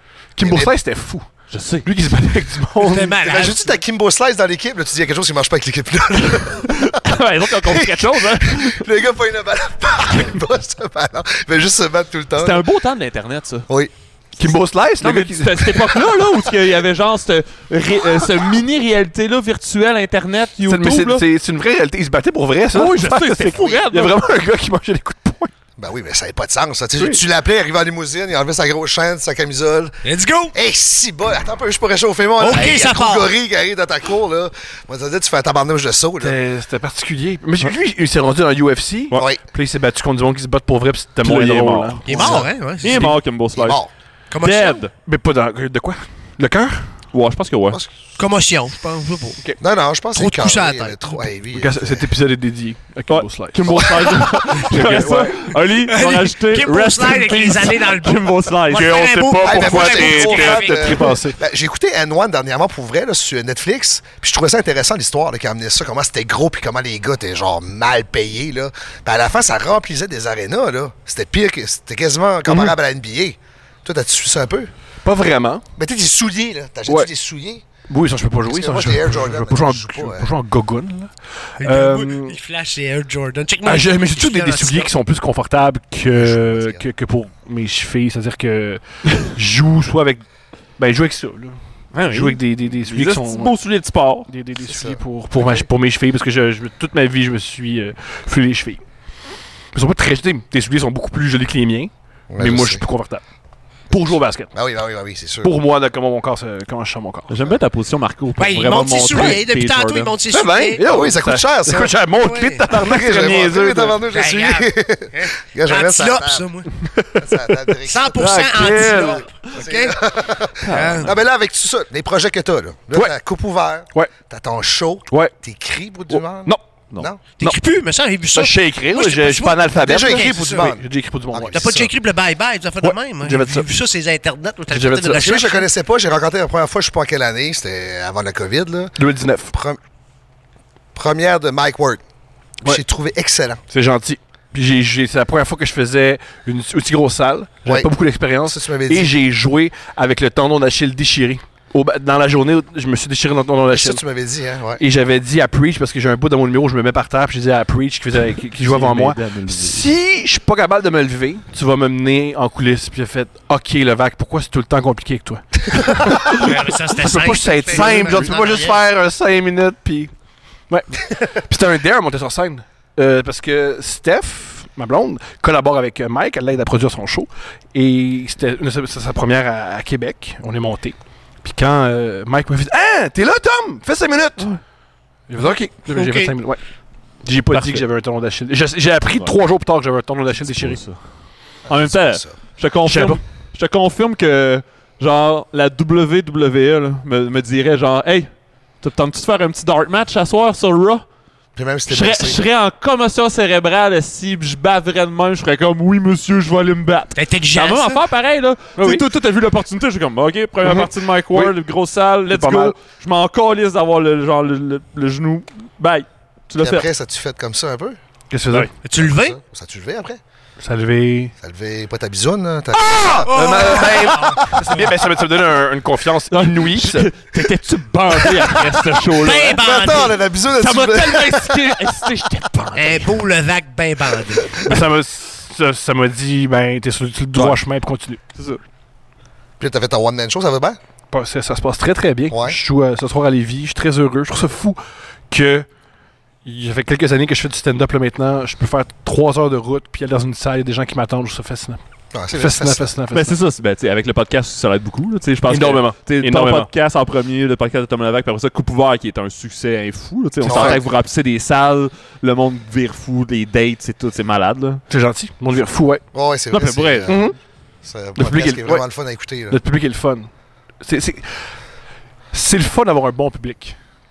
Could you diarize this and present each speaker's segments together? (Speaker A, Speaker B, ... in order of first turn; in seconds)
Speaker A: 0.4-1.2, 1.8-3.2, 14.4-16.1, 20.6-25.5, 36.2-43.1, 45.0-46.9, 51.5-55.5, 58.7-61.4, 75.0-75.6, 77.9-82.4, 83.6-90.2, 90.8-91.6, 92.1-93.5, 94.3-98.8, 99.7-103.2, 103.9-104.5, 105.4-107.3, 110.3-114.0, 116.8-117.3, 118.1-119.2, 126.1-126.6, 128.3-131.9, 132.8-133.7, 134.7-135.2, 139.0-139.5, 143.7-154.0, 154.8-170.1, 170.7-184.5, 185.3-186.6, 187.2-190.8, 192.8-193.2, 208.8-209.0, 210.6-211.5, 212.3-212.7, 218.3-218.7, 220.6-221.3, 223.2-227.1, 234.6-238.2, 241.1-244.8, 245.3-245.7, 246.4-251.8, 252.3-253.4, 255.5-256.7, 260.4-260.8, 264.9-266.0, 267.0-267.4, 268.1-268.8, 269.5-270.3, 270.8-271.3, 272.3-273.8
Speaker B: 0.4-0.7, 3.2-12.6, 25.8-30.0, 30.5-36.4, 39.1-39.4, 42.1-42.4, 43.5-43.9, 49.6-52.1, 59.4-74.7, 75.8-77.6, 78.5-80.3, 86.1-86.8, 94.7-95.0, 102.3-102.8, 103.9-105.5, 110.8-111.9, 112.8-116.5, 117.1-127.2, 129.8-131.9, 135.1-138.9, 139.5-139.8, 140.9-142.0, 142.6-143.6, 148.4-149.1, 153.7-154.8, 191.7-192.4, 201.6-202.4, 216.6-218.0, 219.0-220.2, 221.4-223.7, 229.6-231.6, 239.6-240.8, 242.3-242.6, 252.1-252.9, 260.4-260.8, 266.1-267.3, 267.8-269.6
Speaker C: 1.5-1.9, 6.7-8.8, 12.4-13.7, 15.0-21.2, 22.7-24.2, 41.2-43.8, 44.4-44.9, 47.1-47.8, 53.1-59.2, 91.9-94.3, 107.3-110.1, 120.7-121.1, 158.6-159.9, 187.5-187.8, 190.3-191.0, 191.7-201.0, 201.9-216.9, 226.3-229.6, 230.6-233.2, 238.3-238.6, 253.1-264.8, 266.5-267.1
Speaker D: 2.8-3.8, 30.0-30.5, 32.4-33.3, 42.0-43.1, 44.3-44.8, 48.2-49.4, 50.1-51.2, 55.9-61.1, 81.6-84.9, 108.4-110.8, 112.2-112.6, 114.1-116.7, 117.9-120.0, 120.7-121.1, 127.4-130.7, 131.5-135.7, 166.4-168.8, 185.9-186.3, 207.2-208.0, 218.8-219.4, 223.3-224.5, 229.2-230.2, 232.8-234.6